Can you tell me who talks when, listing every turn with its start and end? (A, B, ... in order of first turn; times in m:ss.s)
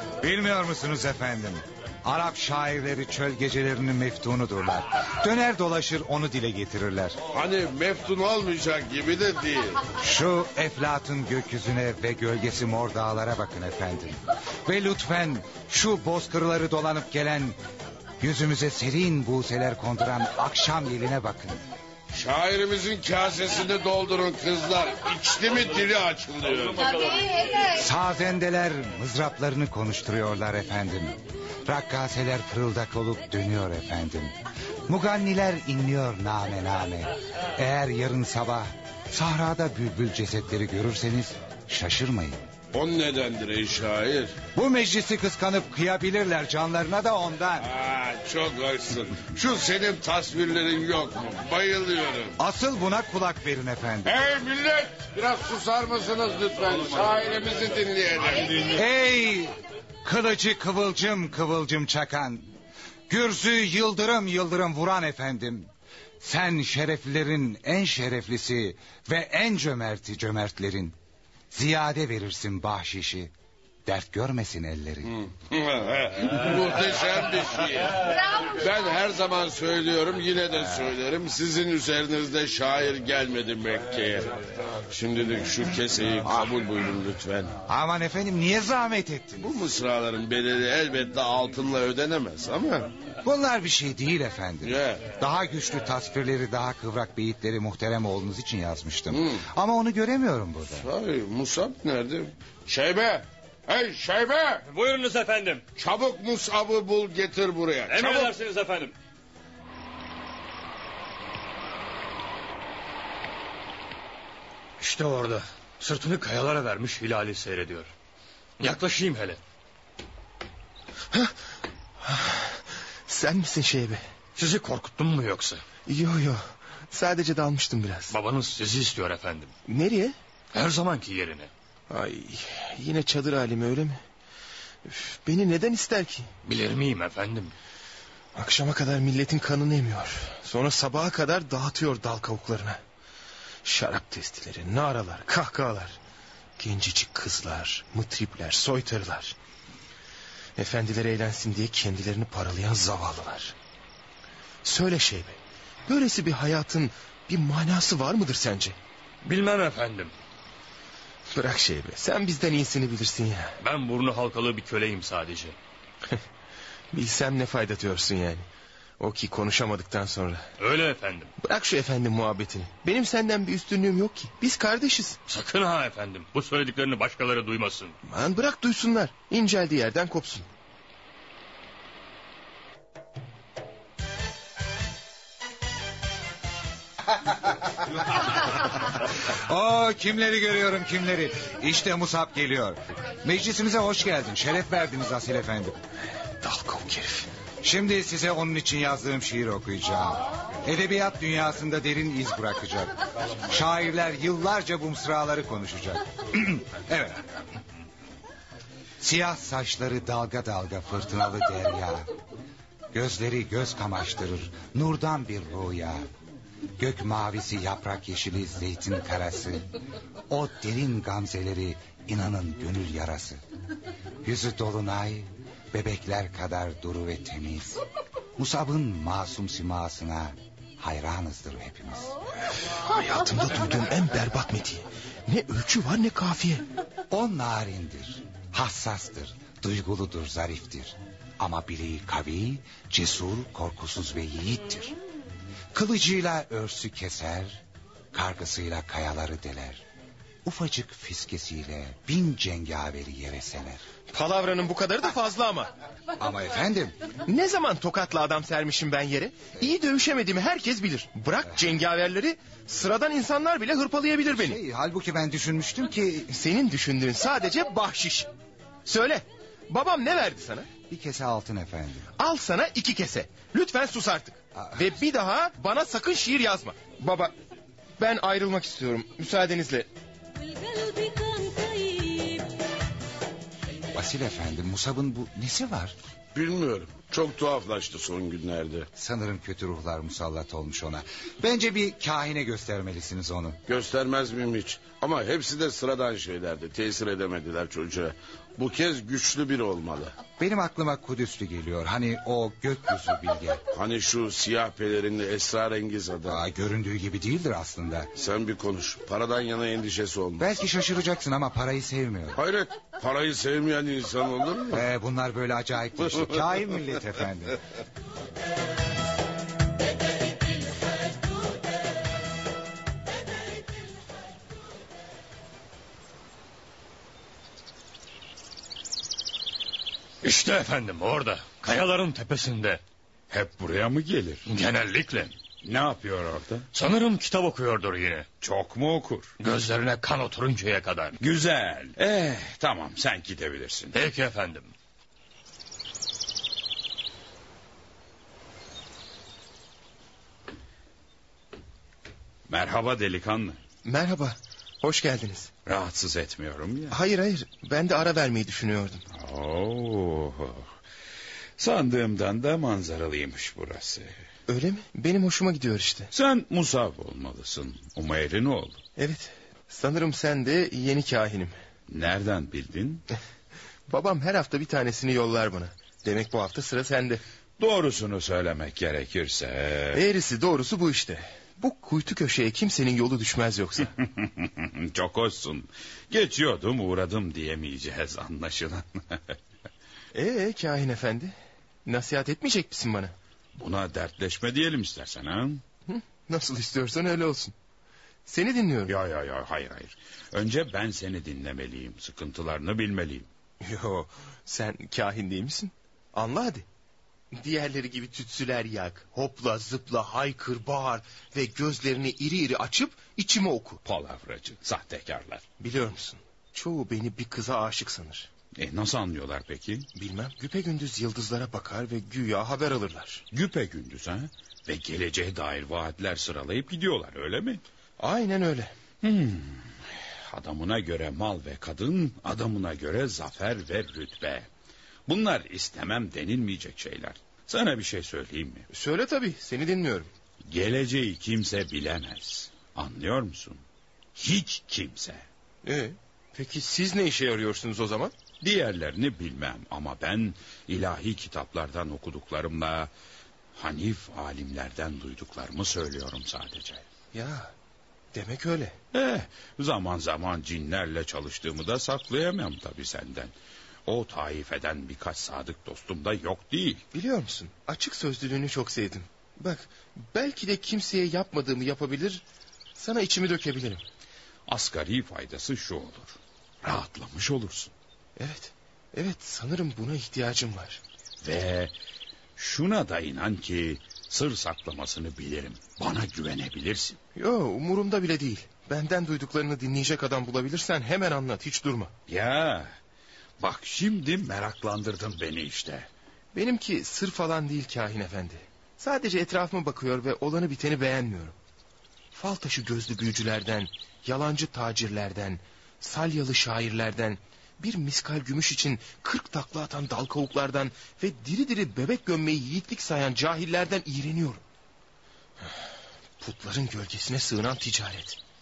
0:00.2-0:07.2 A
0:07.3-0:09.8 B
0:10.0-0:17.6 A
0:18.2-0:21.6 A
0:22.1-0:27.2 B
0:27.7-0:34.4 A
0:34.9-0:42.4 A
0:42.7-0:44.4 B
0:44.5-0:47.7 A
0:47.6-0:52.4 B
0:52.4-0:54.1 A
0:54.1-0:58.8 B
0:58.7-1:02.5 A
1:03.1-1:05.7 A
1:06.2-1:11.0 A
1:11.5-1:13.3 A
1:13.9-1:15.2 A
1:15.1-1:24.3 B
1:24.9-1:27.5 B
1:27.7-1:29.6 A
1:29.4-1:32.9 B
1:33.2-1:40.9 A
1:34.6-1:35.1 B
1:39.1-1:39.4 B
1:40.7-1:44.6 B
1:44.7-1:45.7 C
1:45.8-1:48.3 B
1:47.9-1:48.9 C
1:54.8-1:57.9 C
1:58.6-1:59.4 C
2:02.0-2:04.0 D
2:04.4-2:05.6 C
2:05.9-2:08.2 D
2:08.1-2:09.5 C
2:09.7-2:10.2 D
2:10.5-2:11.5 C
2:11.9-2:14.0 D
2:14.9-2:16.3 D
2:16.4-2:17.5 C
2:18.4-2:22.8 D
2:23.6-2:26.0 D
2:26.6-2:29.4 D
2:30.6-2:33.6 D
2:34.6-2:38.8 D
2:39.2-2:40.1 C
2:41.3-2:43.6 D
2:43.6-2:45.6 C
2:46.9-2:48.5 D
2:49.0-2:50.5 D
2:50.6-2:51.3 C
2:51.4-2:55.2 D
2:55.3-2:58.0 C
2:58.0-3:00.5 D
3:08.4-3:15.8 A
3:16.4-3:17.3 D
3:17.6-3:27.2 A
3:29.0-3:32.1 A
3:32.9-3:36.1 A
3:36.8-3:39.7 A
3:40.3-3:43.4 A
3:44.2-3:47.8 A
3:48.4-3:52.2 A
3:52.8-3:56.6 D
3:57.1-4:05.0 A
4:05.7-4:07.6 A
4:08.1-4:09.8 A
4:10.4-4:13.8 A
4:14.1-4:15.7 D
4:16.2-4:17.0 A
4:17.3-4:24.6 D
4:24.3-4:26.3 A
4:26.3-4:28.3 D
4:28.8-4:30.7 D
4:30.9-4:32.1 A
4:32.2-4:37.3 D
4:38.0-4:39.9 D
4:43.9-4:46.0 A
4:46.3-4:48.9 B
4:49.0-4:53.6 A
4:53.7-5:00.2 B
5:00.4-5:03.6 A
5:03.7-5:06.4 B
5:06.3-5:08.1 A
5:08.2-5:10.4 B
5:10.4-5:12.4 A
5:12.4-5:14.8 B
5:14.7-5:17.6 A
5:16.0-5:16.4 B
5:30.2-5:32.8 C
5:33.3-5:34.5 E
5:34.5-5:35.3 C
5:35.6-5:36.7 E
5:36.7-5:38.3 C
5:38.4-5:39.3 E
5:39.4-5:41.2 C
5:41.2-5:44.0 E
5:43.9-5:44.7 C
5:52.5-5:53.6 E
5:53.8-5:55.5 D
5:55.7-5:57.0 E
5:56.9-5:59.0 D
5:59.1-6:00.7 E
6:01.6-6:04.2 E
6:04.5-6:06.1 D
6:06.1-6:08.8 E
6:09.0-6:11.6 D
6:11.9-6:13.0 E
6:13.9-6:17.2 D
6:17.6-6:20.0 E
6:19.9-6:23.9 D
6:24.0-6:29.4 E
6:30.1-6:31.3 D
6:31.9-6:33.1 D
6:33.6-6:35.6 E
6:35.9-6:37.5 D
6:38.3-6:38.9 D
6:38.9-6:43.3 E
6:43.6-6:46.6 D
6:47.3-6:53.8 D
6:53.8-6:55.4 E
6:55.6-6:58.3 D
6:58.6-6:59.9 E
7:00.0-7:03.2 D
7:03.3-7:07.6 E
7:08.0-7:08.7 D
7:09.0-7:14.5 E
7:15.1-7:18.7 E
7:18.7-7:20.1 D
7:20.5-7:23.6 E
7:24.2-7:25.3 E
7:25.6-7:28.1 D
7:28.4-7:32.9 E
7:33.6-7:36.9 E
7:37.1-7:37.5 D
7:38.1-7:38.8 D
7:38.9-7:43.3 E
7:43.9-7:46.8 E
7:46.9-7:52.2 D
7:52.8-7:53.8 D
7:54.5-7:57.7 E
7:58.2-8:00.8 D
8:01.2-8:01.7 E
8:02.4-8:07.0 E
8:07.2-8:11.9 D
8:12.1-8:12.7 E
8:13.4-8:15.9 E
8:16.3-8:21.4 D
8:22.1-8:34.4 D
8:36.2-8:38.2 D